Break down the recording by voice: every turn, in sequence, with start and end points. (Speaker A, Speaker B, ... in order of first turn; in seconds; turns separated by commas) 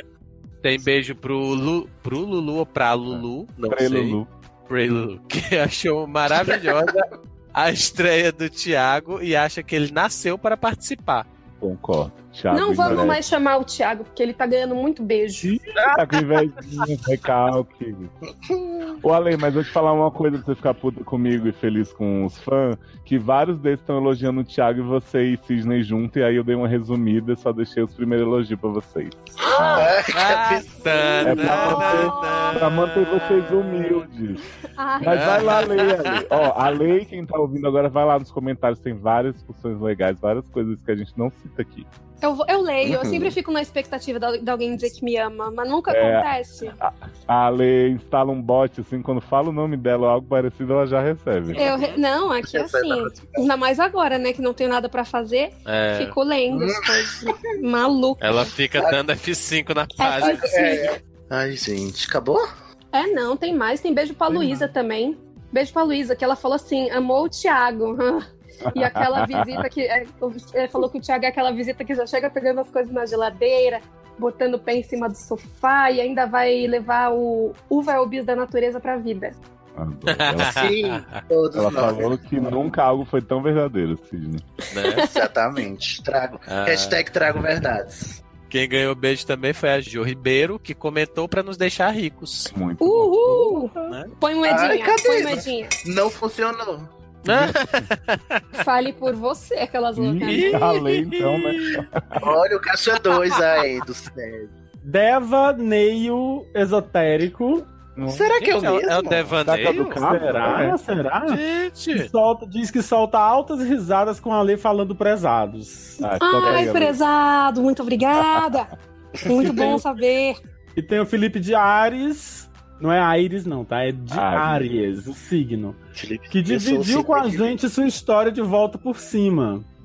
Speaker A: 0.6-4.2, Speaker B: 3.1-4.3, Speaker A: 4.7-11.2, Speaker B: 11.6-13.2, Speaker C: 12.5-15.5, Speaker B: 15.4-18.1, Speaker D: 18.4-18.9, Speaker B: 19.0-30.0, Speaker C: 29.4-29.7, Speaker D: 29.7-31.8, Speaker A: 30.1-32.8, Speaker C: 30.9-32.6, Speaker B: 31.2-34.4, Speaker C: 34.8-35.7, Speaker B: 35.0-41.9, Speaker A: 35.1-36.5, Speaker C: 42.2-46.8, Speaker D: 42.8-43.3, Speaker B: 45.9-46.3, Speaker B: 46.8-51.7, Speaker D: 51.5-51.8, Speaker C: 51.5-58.2, Speaker A: 51.6-52.0, Speaker D: 52.4-53.5, Speaker A: 55.6-56.1, Speaker D: 56.5-57.3, Speaker A: 58.2-60.8, Speaker C: 60.0-60.9, Speaker D: 60.2-62.5, Speaker C: 62.9-79.3, Speaker B: 64.3-64.7, Speaker B: 68.7-69.7, Speaker B: 79.8-80.7, Speaker A: 80.1-81.2, Speaker D: 80.4-82.2, Speaker B: 81.5-84.5, Speaker A: 84.7-85.1, Speaker C: 84.8-85.1, Speaker D: 85.0-88.2, Speaker A: 86.5-87.0, Speaker A: 88.5-92.5, Speaker B: 92.5-93.6, Speaker C: 92.8-95.8, Speaker A: 93.9-94.1, Speaker D: 94.4-96.9, Speaker A: 97.2-98.4, Speaker B: 97.3-97.5, Speaker C: 98.5-100.8, Speaker B: 100.0-102.3, Speaker A: 100.2-101.1, Speaker D: 102.2-104.5, Speaker A: 103.1-103.3, Speaker E: 104.8-107.7, Speaker B: 108.0-108.3, Speaker D: 108.0-109.3, Speaker A: 108.3-110.0, Speaker B: 109.4-110.8, Speaker E: 110.0-111.4, Speaker A: 111.3-112.1, Speaker E: 111.9-116.0, Speaker B: 116.0-117.0, Speaker C: 116.2-118.7, Speaker B: 118.2-118.5, Speaker D: 119.2-119.8, Speaker C: 119.2-120.4, Speaker E: 119.4-119.8, Speaker E: 120.8-125.8, Speaker B: 124.1-124.7, Speaker D: 125.9-127.6, Speaker E: 126.3-129.7